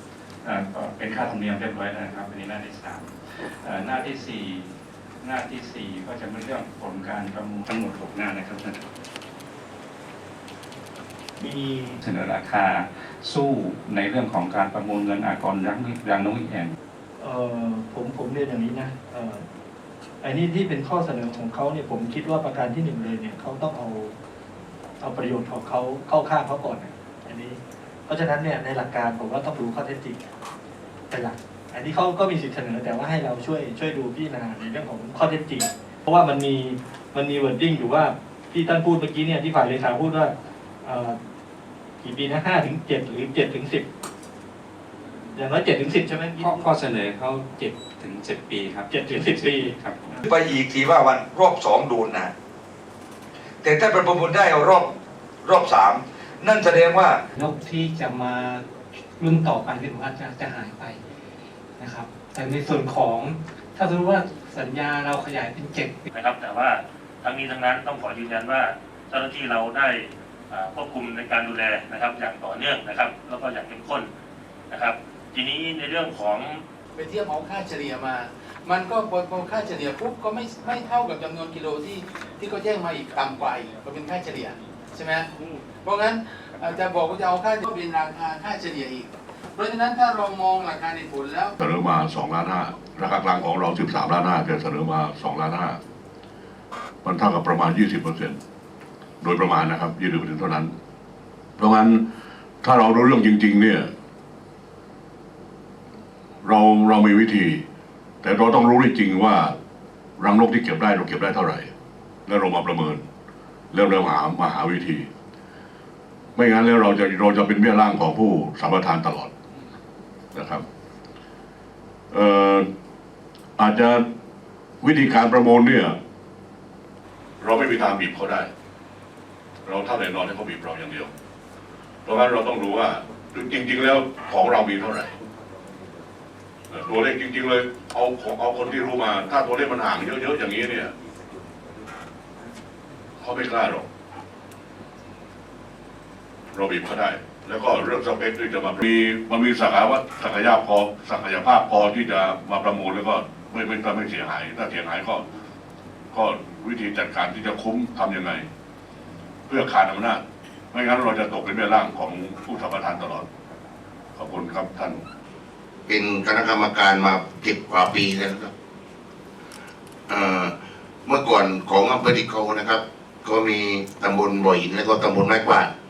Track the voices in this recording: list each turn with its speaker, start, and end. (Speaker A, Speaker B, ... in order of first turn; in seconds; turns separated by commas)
Speaker A: 0.4-8.9, Speaker B: 11.4-12.0, Speaker A: 12.0-16.8, Speaker B: 17.2-19.5, Speaker B: 20.2-24.2, Speaker B: 25.0-30.2, Speaker B: 31.1-41.2, Speaker B: 42.0-43.9, Speaker B: 45.4-46.6, Speaker A: 46.4-50.2, Speaker B: 48.9-50.2, Speaker C: 50.2-52.3, Speaker C: 53.6-57.2, Speaker D: 57.4-58.6, Speaker D: 59.2-61.0, Speaker D: 61.8-66.1, Speaker E: 66.1-74.1, Speaker E: 74.7-76.6, Speaker F: 77.0-85.3, Speaker F: 85.8-91.5, Speaker G: 91.6-95.8, Speaker G: 97.0-98.4, Speaker G: 99.2-100.7, Speaker G: 101.6-102.0, Speaker G: 102.6-103.9, Speaker G: 106.4-107.6, Speaker G: 108.2-109.6, Speaker G: 110.2-111.7, Speaker G: 112.3-113.0, Speaker G: 113.7-115.1, Speaker G: 116.4-119.3, Speaker G: 120.3-120.6, Speaker G: 122.1-122.7, Speaker G: 123.6-124.1, Speaker G: 124.8-126.0, Speaker G: 127.4-128.5, Speaker G: 129.7-131.1, Speaker G: 132.1-135.2, Speaker G: 136.7-140.9, Speaker G: 143.2-143.9, Speaker G: 146.5-155.3, Speaker G: 156.1-158.5, Speaker G: 159.5-163.3, Speaker G: 164.2-165.0, Speaker H: 165.9-168.5, Speaker H: 170.1-170.5, Speaker H: 171.1-175.7